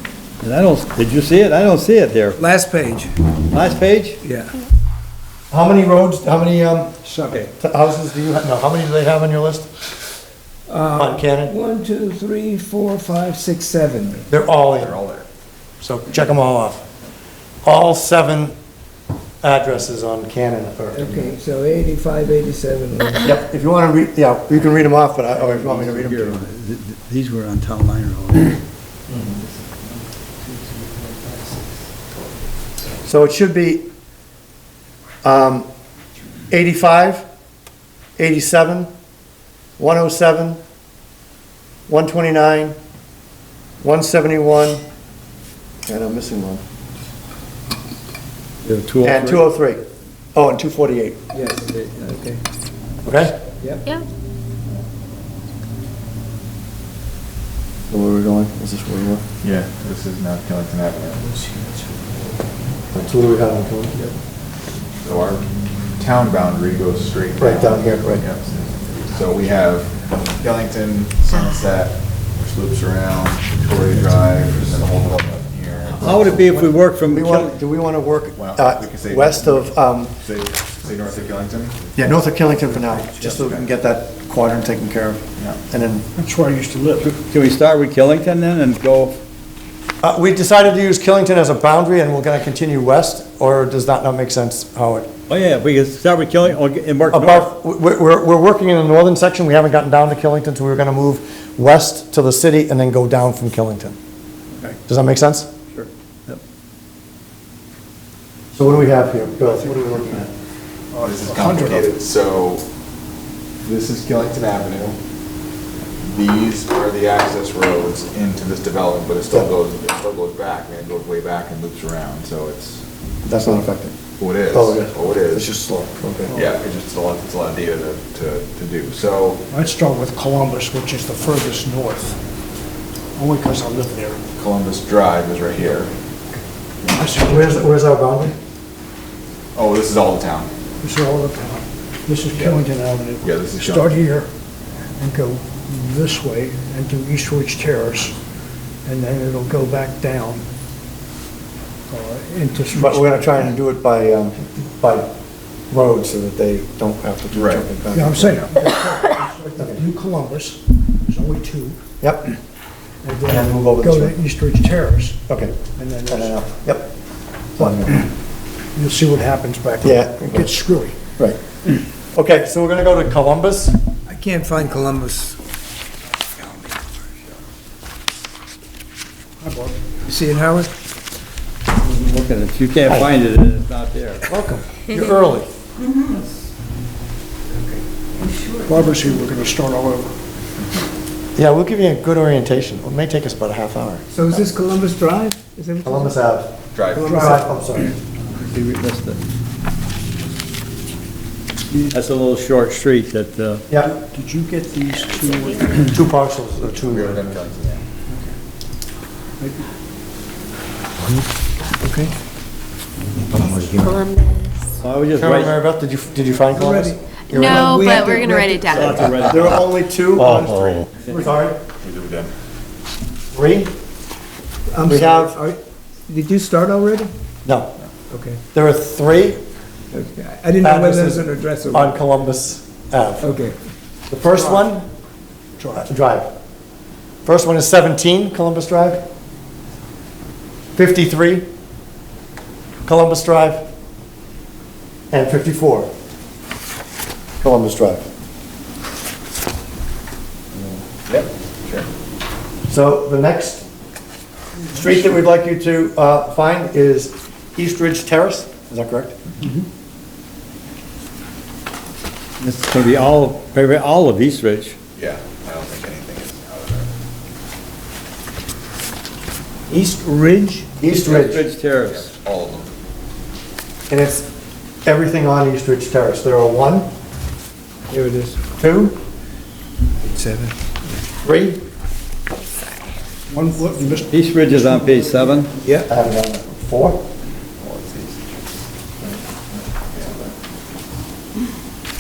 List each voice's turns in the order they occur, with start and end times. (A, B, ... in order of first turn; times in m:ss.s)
0:00.4-0:02.4 A
0:02.4-0:03.1 B
0:03.5-0:04.2 A
0:04.2-0:04.5 B
0:05.5-0:07.0 C
0:07.0-0:07.4 B
0:07.6-0:09.7 C
0:10.7-0:14.3 B
0:10.9-0:11.5 C
0:14.3-0:14.9 C
0:14.7-0:15.3 D
0:15.8-0:16.8 C
0:17.6-0:18.6 C
0:19.4-0:21.4 C
0:20.9-0:23.3 B
0:23.2-0:26.4 C
0:25.4-0:28.6 A
0:30.7-0:31.5 A
0:33.0-0:33.8 C
0:35.2-0:35.7 C
0:36.5-0:37.2 C
0:38.2-0:38.9 C
0:39.8-0:40.6 C
0:41.9-0:42.8 C
0:43.8-0:44.8 C
0:45.8-0:46.6 C
0:48.6-0:49.4 A
0:49.0-0:49.8 C
0:50.3-0:51.2 C
0:51.3-0:52.4 B
0:53.0-0:53.3 C
0:57.9-0:59.2 C
0:59.4-1:01.3 D
1:02.9-1:04.0 C
1:05.0-1:16.4 D
1:07.4-1:08.2 C
1:15.9-1:17.5 A
1:17.0-1:20.1 C
1:18.4-1:21.8 D
1:22.0-1:26.0 C
1:23.2-1:23.6 D
1:26.2-1:27.1 E
1:27.0-1:29.2 A
1:30.0-1:35.1 C
1:35.3-1:37.5 A
1:37.1-1:44.0 C
1:44.9-1:45.5 C
1:45.7-1:46.4 A
1:48.5-1:50.3 C
1:49.8-1:50.2 E
1:50.9-1:51.9 E
1:51.0-1:52.6 D
1:53.6-1:55.0 D
1:56.1-2:02.8 D
2:03.2-2:03.9 C
2:04.2-2:05.5 D
2:04.5-2:06.4 C
2:06.3-2:09.4 D
2:09.5-2:12.2 E
2:13.2-2:14.2 E
2:14.4-2:15.9 D
2:16.8-2:17.2 D
2:16.8-2:17.7 E
2:17.2-2:18.3 C
2:19.5-2:20.5 D
2:20.8-2:24.3 E
2:22.2-2:24.0 D
2:25.0-2:28.2 E
2:28.8-2:30.4 E
2:31.9-2:33.4 E
2:32.7-2:35.1 C
2:35.7-2:38.4 C
2:37.3-2:37.7 D
2:37.9-2:41.8 E
2:39.6-2:39.8 C
2:42.0-2:42.3 C
2:43.0-2:46.4 E
2:43.2-2:44.2 C
2:45.3-2:46.9 C
2:47.6-2:48.0 C
2:47.6-2:48.0 E
2:48.7-2:51.0 E
2:49.8-2:50.5 C
2:52.1-2:53.7 C
2:54.1-2:55.4 B
2:56.4-2:56.9 B
2:59.4-3:00.0 E
3:00.0-3:00.7 B
3:01.8-3:04.3 A
3:04.3-3:05.5 C
3:07.5-3:07.8 B
3:08.4-3:09.0 F
3:08.6-3:10.1 E
3:11.4-3:14.1 C
3:14.1-3:16.2 B
3:15.8-3:17.9 C
3:16.7-3:17.5 D
3:17.0-3:17.4 B
3:17.0-3:17.3 E
3:18.3-3:19.2 A
3:21.7-3:22.0 E
3:21.9-3:23.6 A
3:23.8-3:26.0 E
3:25.2-3:25.8 F
3:25.9-3:27.4 C
3:26.8-3:27.8 D
3:28.1-3:28.3 E
3:29.4-3:29.7 E
3:31.8-3:32.1 B
3:33.4-3:33.7 A
3:33.7-3:34.7 F
3:34.8-3:35.6 A
3:35.2-3:38.0 C
3:36.5-3:38.9 B
3:37.3-3:39.2 F
3:38.6-3:41.1 A
3:39.2-3:41.6 C
3:41.8-3:42.3 D
3:43.3-3:43.7 C
3:44.7-3:47.1 B
3:44.8-3:45.4 C
3:47.4-3:47.7 C
3:48.1-3:48.4 B
3:48.5-3:49.4 C
3:49.9-3:52.0 B
3:50.6-3:53.3 C
3:53.2-3:53.6 B
3:54.1-3:54.8 C
3:54.3-3:54.6 E
3:55.6-3:55.9 E
3:55.7-3:56.3 C
3:57.2-3:59.0 C
4:00.8-4:01.4 C
4:02.8-4:03.6 C
4:05.1-4:05.9 C
4:07.4-4:08.0 C
4:10.5-4:10.8 C
4:11.1-4:11.8 D
4:12.7-4:13.6 C
4:14.7-4:19.2 C
4:22.4-4:24.8 A
4:25.0-4:26.9 D
4:29.7-4:30.7 B
4:30.8-4:31.4 C
4:30.9-4:32.1 A
4:31.8-4:32.7 D
4:33.9-4:34.3 C
4:34.8-4:36.9 C
4:37.9-4:38.4 B
4:38.6-4:39.0 C
4:40.0-4:40.5 B
4:41.2-4:41.6 C
4:43.3-4:45.6 E
4:44.1-4:45.5 A
4:45.6-4:45.9 B
4:45.9-4:47.0 C
4:47.6-4:48.4 D
4:49.0-4:50.3 D